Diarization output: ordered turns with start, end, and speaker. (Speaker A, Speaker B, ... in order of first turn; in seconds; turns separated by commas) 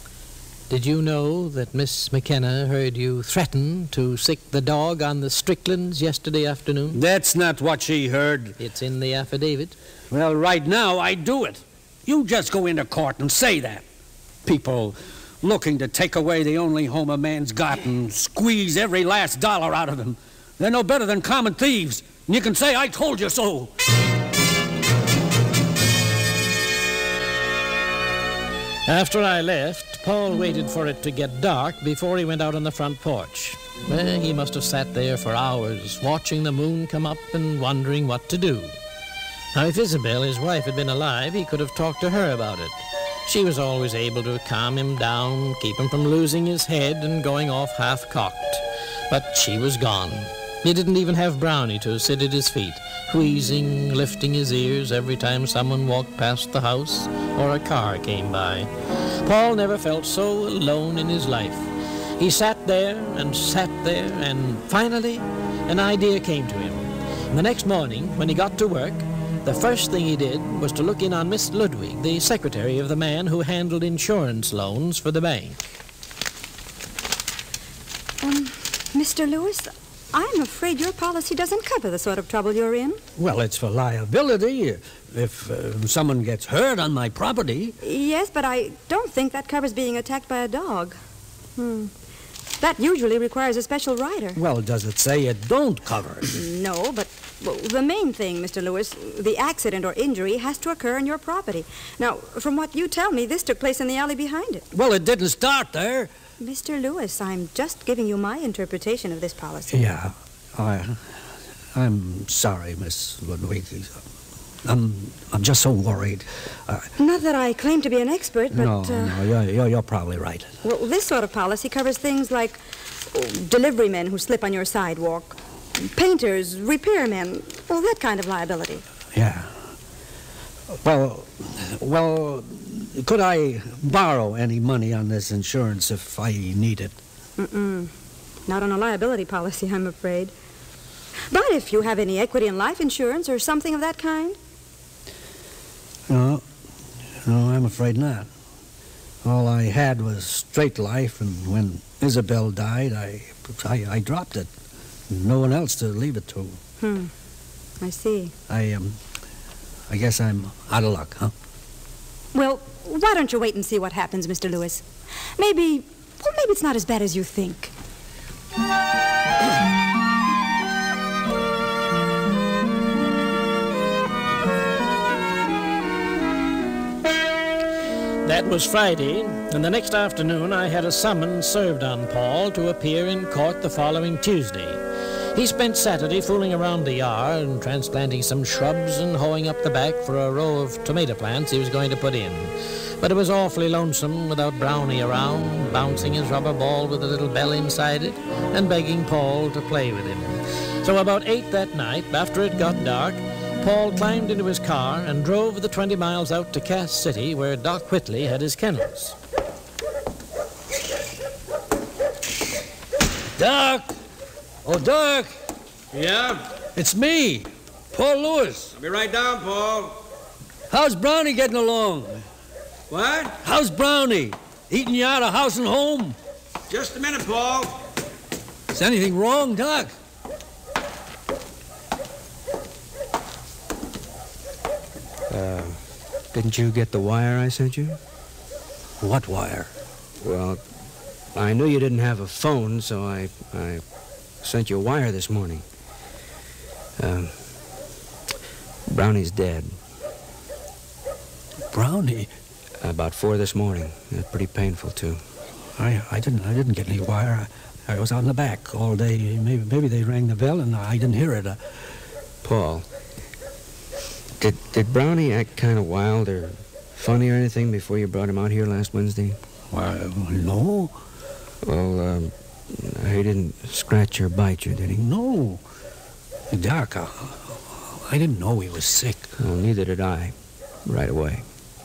Speaker A: 0.7-7.0, Speaker B: 6.9-8.6, Speaker A: 8.6-9.7, Speaker B: 10.1-13.8, Speaker B: 14.4-23.7, Speaker A: 28.9-38.7, Speaker A: 39.5-58.7, Speaker A: 59.2-75.7, Speaker C: 78.2-83.0, Speaker B: 83.2-87.8, Speaker C: 87.8-91.0, Speaker C: 91.6-91.9, Speaker C: 92.6-94.4, Speaker B: 94.3-96.3, Speaker C: 96.3-104.6, Speaker B: 104.7-106.1, Speaker C: 106.4-109.8, Speaker B: 109.7-111.1, Speaker B: 111.7-114.0, Speaker B: 114.6-116.9, Speaker C: 117.0-119.2, Speaker B: 118.5-120.5, Speaker C: 120.6-122.6, Speaker C: 123.1-128.8, Speaker B: 129.1-129.6, Speaker B: 130.7-136.9, Speaker C: 137.4-137.9, Speaker C: 138.5-140.3, Speaker C: 141.3-144.3, Speaker B: 146.1-146.4, Speaker B: 147.2-148.3, Speaker B: 149.2-154.5, Speaker B: 155.1-156.6, Speaker C: 156.8-157.1, Speaker C: 157.8-158.3, Speaker B: 158.5-159.0, Speaker B: 159.9-161.3, Speaker C: 162.3-164.8, Speaker C: 165.4-167.7, Speaker A: 178.2-184.8, Speaker A: 185.3-209.2, Speaker B: 213.4-213.9, Speaker B: 214.6-215.3, Speaker D: 215.9-216.5, Speaker B: 216.7-218.7, Speaker D: 218.7-220.0, Speaker B: 220.7-222.2, Speaker D: 222.9-223.4, Speaker B: 223.4-226.2, Speaker D: 226.7-227.8, Speaker B: 228.7-229.9, Speaker E: 235.3-235.8, Speaker E: 236.3-238.0, Speaker B: 239.0-239.7, Speaker E: 240.2-240.6, Speaker E: 241.3-243.8, Speaker E: 244.4-245.6, Speaker E: 247.0-247.5, Speaker E: 248.9-249.7, Speaker B: 251.7-252.3, Speaker E: 252.8-255.2, Speaker B: 255.8-261.6, Speaker E: 262.4-262.8, Speaker E: 264.4-269.4, Speaker B: 269.7-270.9, Speaker E: 271.6-275.0, Speaker B: 275.0-275.6, Speaker B: 276.5-279.3, Speaker E: 279.4-281.5